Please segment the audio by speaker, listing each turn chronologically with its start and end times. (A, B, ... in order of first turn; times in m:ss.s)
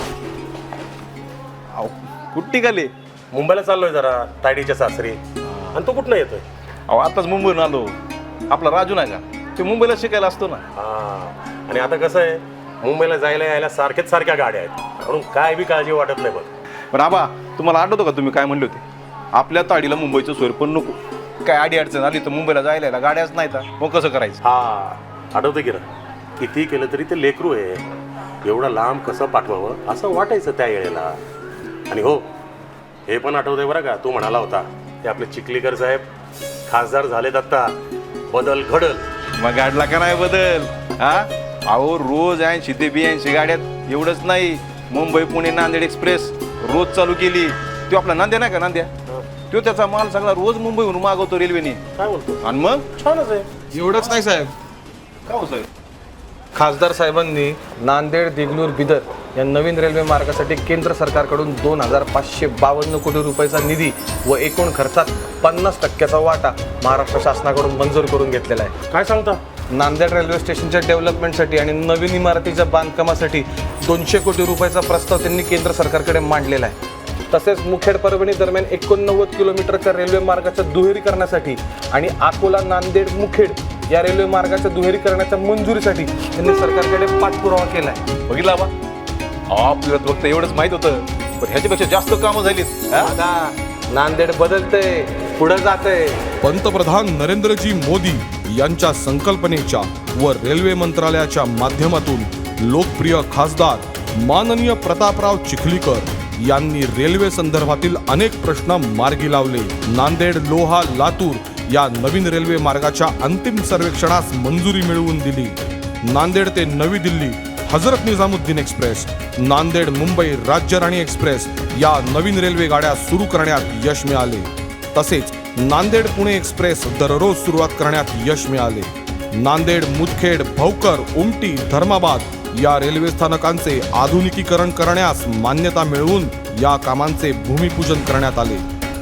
0:01.8-0:02.9 A
0:03.3-0:05.2 B
0:05.7-0:06.4 B
0:06.9-0:07.9 A
0:08.5-0:10.6 A
0:10.8-0:16.5 B
0:16.9-0:18.8 A
0:19.3-0:24.4 A
0:24.4-0:25.8 B
0:26.4-0:27.8 B
0:28.4-0:31.2 B
0:31.9-0:32.2 B
0:33.1-0:36.1 B
0:36.7-0:37.7 B
0:38.3-0:39.0 B
0:39.4-0:48.9 A
0:49.5-0:51.8 A
0:52.0-0:52.4 B
0:52.4-0:52.8 A
0:53.0-0:53.5 B
0:53.7-0:54.5 C
0:55.3-0:55.7 A
0:56.6-1:08.8 C
1:08.9-1:09.4 B
1:09.7-1:16.8 C
1:17.3-1:28.0 C
1:28.3-1:28.7 A
1:29.5-1:33.2 A
1:33.0-1:36.2 C
1:36.4-2:18.6 D